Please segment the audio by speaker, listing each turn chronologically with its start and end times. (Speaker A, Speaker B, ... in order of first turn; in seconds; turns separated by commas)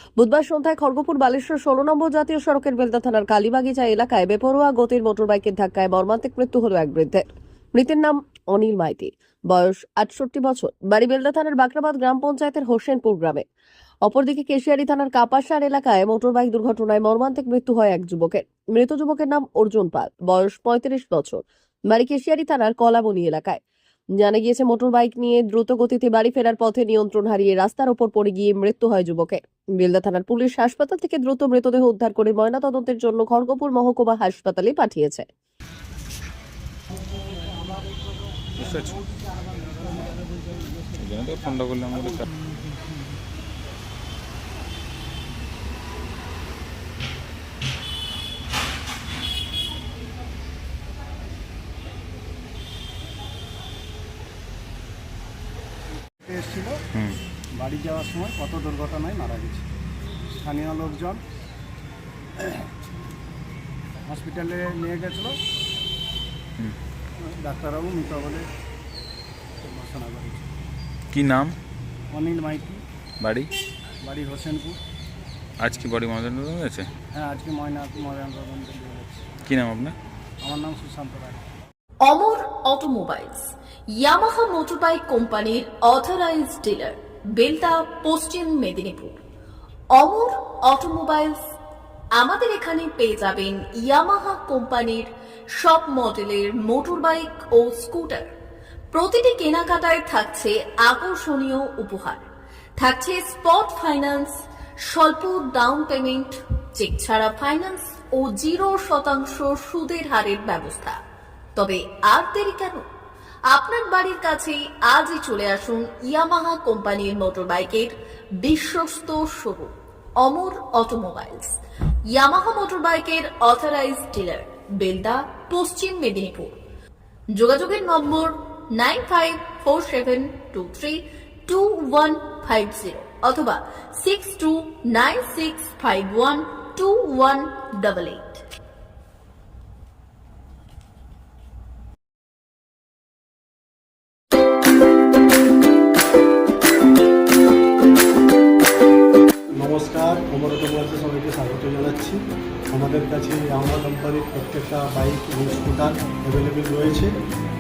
Speaker A: 0.2-13.4, Speaker A: 14.1-23.6, Speaker A: 24.2-35.3, Speaker B: 38.6-39.0, Speaker B: 41.0-42.3, Speaker C: 56.2-56.8, Speaker B: 56.9-57.2, Speaker C: 57.5-59.7, Speaker C: 60.3-61.2, Speaker C: 62.4-62.7, Speaker C: 64.0-65.4, Speaker C: 67.2-68.5, Speaker C: 69.6-70.5, Speaker B: 71.1-71.6, Speaker C: 72.1-72.8, Speaker B: 73.2-73.5, Speaker C: 74.0-74.8, Speaker B: 75.6-76.9, Speaker C: 77.1-79.3, Speaker B: 79.4-80.0, Speaker C: 80.4-81.4, Speaker D: 82.0-89.2, Speaker D: 89.9-91.4, Speaker D: 92.2-98.3, Speaker D: 98.9-102.2, Speaker D: 102.8-111.0, Speaker D: 111.6-112.9, Speaker D: 113.5-126.6, Speaker D: 127.3-138.4, Speaker E: 149.5-157.2